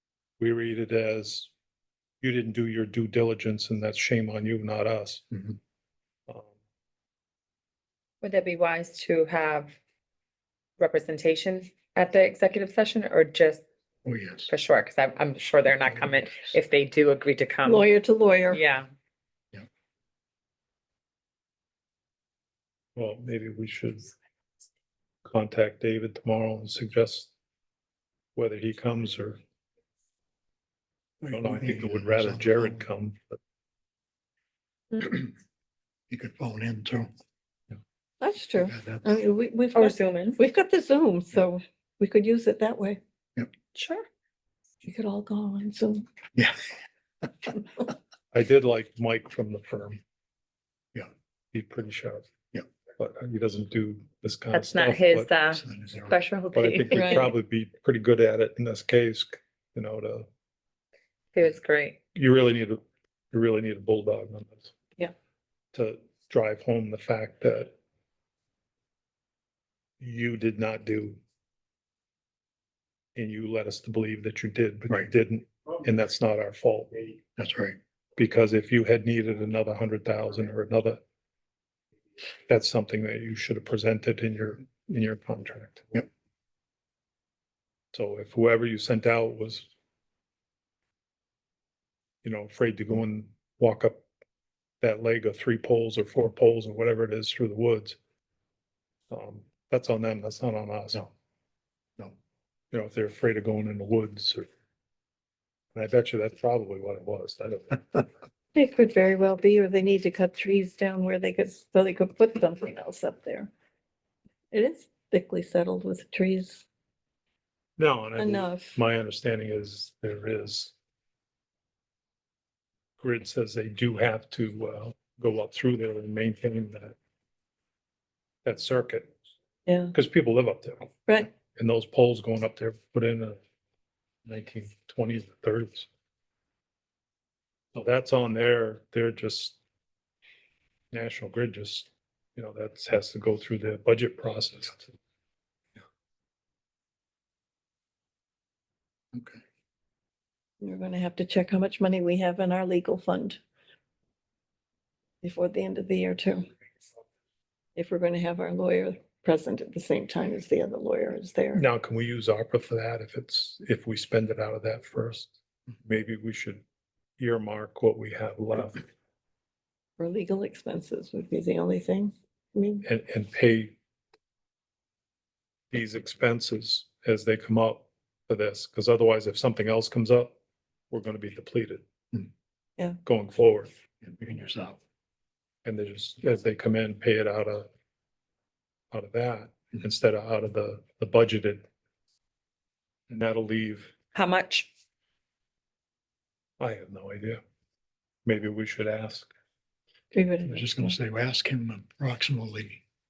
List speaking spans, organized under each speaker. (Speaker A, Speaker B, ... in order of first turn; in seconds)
Speaker A: 0.4-1.5, 2.2-5.2, 6.3-6.5, 22.9-24.1, 25.2-27.3, 28.4-29.4, 31.3-33.4, 48.3-50.0, 51.5-52.3, 53.0-55.3, 56.5-60.2, 62.1-62.8, 63.3-64.7, 65.7-67.7, 70.0-71.2, 73.2-77.1, 78.2-81.0, 82.5-86.0, 87.9-89.7, 92.2-94.0, 94.8-98.0, 99.1-101.0, 102.7-104.5, 105.7-108.1, 117.8-120.7, 123.0-127.0, 128.4-129.1, 129.9-133.4, 134.2-135.9, 137.7-139.6, 140.9-144.9, 161.5-165.3, 165.8-166.6, 167.2-168.8, 172.8-173.8, 175.7-180.3, 180.9-181.8, 183.0-183.7, 185.6-187.7, 188.9-191.7, 193.1-193.9, 196.6-197.4, 198.2-199.3
Speaker B: 8.2-9.8, 10.8-13.6, 14.5-17.9, 18.5-18.9, 39.7-40.4, 43.7-44.0, 54.5-57.3, 61.3-62.0, 194.1-194.7
Speaker C: 14.0-14.5, 31.2-32.8, 35.0-35.3, 36.1-37.1, 38.6-39.1, 46.4-46.6, 55.5-56.1, 77.4-77.8, 149.1-149.4, 184.0-184.8, 200.5-202.8
Speaker D: 17.6-18.6, 38.2-43.0, 44.8-46.0, 56.9-57.3, 108.5-113.5, 114.5-116.6, 118.2-118.8, 129.7-129.9, 150.6-153.4, 155.2-156.5, 157.8-161.6, 170.0-172.8, 200.1-200.9